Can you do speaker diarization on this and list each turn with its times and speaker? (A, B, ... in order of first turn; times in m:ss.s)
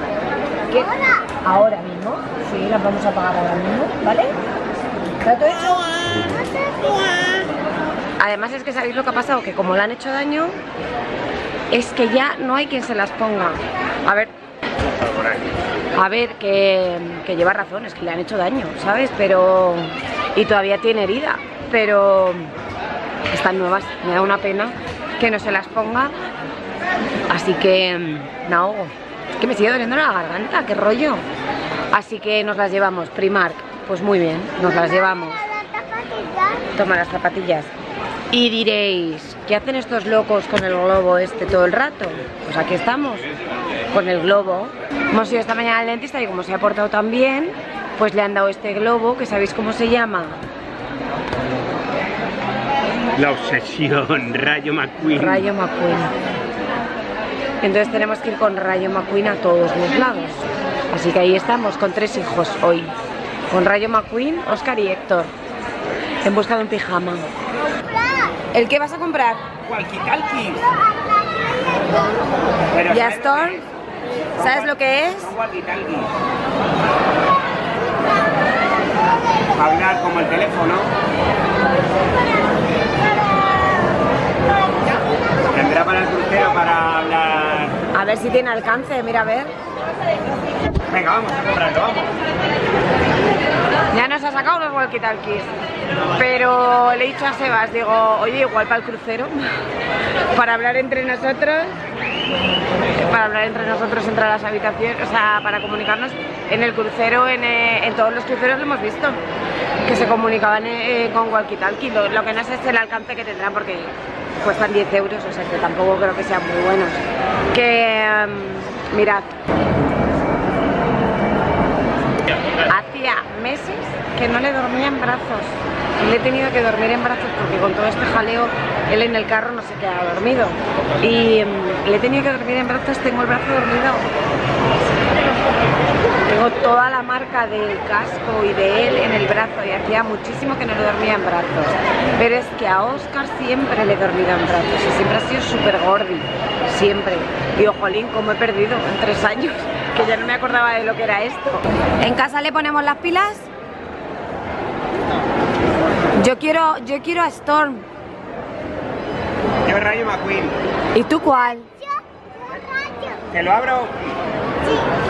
0:00.7-0:04.4 A
0:05.2-0:05.9 A
0:08.2-0:10.6 A
0:11.7-0:14.3 A
0:14.8-0:15.5 B
0:15.9-0:22.5 A
0:23.3-0:26.1 A
0:27.3-0:31.2 A
0:31.9-0:35.4 A
0:36.7-0:37.7 A
0:38.3-0:43.2 A
0:43.9-0:50.4 A
0:53.1-0:55.4 B
0:55.1-0:56.1 A
0:57.6-1:02.9 A
1:03.5-1:05.3 A
1:06.2-1:07.3 A
1:08.5-1:09.5 A
1:09.6-1:10.7 B
1:12.7-1:13.7 B
1:12.9-1:13.6 A
1:14.3-1:16.1 B
1:14.4-1:15.3 A
1:19.5-1:20.9 B
1:25.5-1:27.8 B
1:27.9-1:29.5 A
1:30.9-1:32.1 B
1:33.9-1:35.5 A
1:36.1-1:39.5 A
1:40.3-1:41.8 A
1:43.0-1:49.2 A
1:49.8-1:59.3 A
2:02.6-2:14.1 A
2:16.2-2:33.5 A
2:36.2-2:37.8 A
2:39.6-2:40.6 B
2:40.9-2:41.7 A
2:43.3-2:43.9 B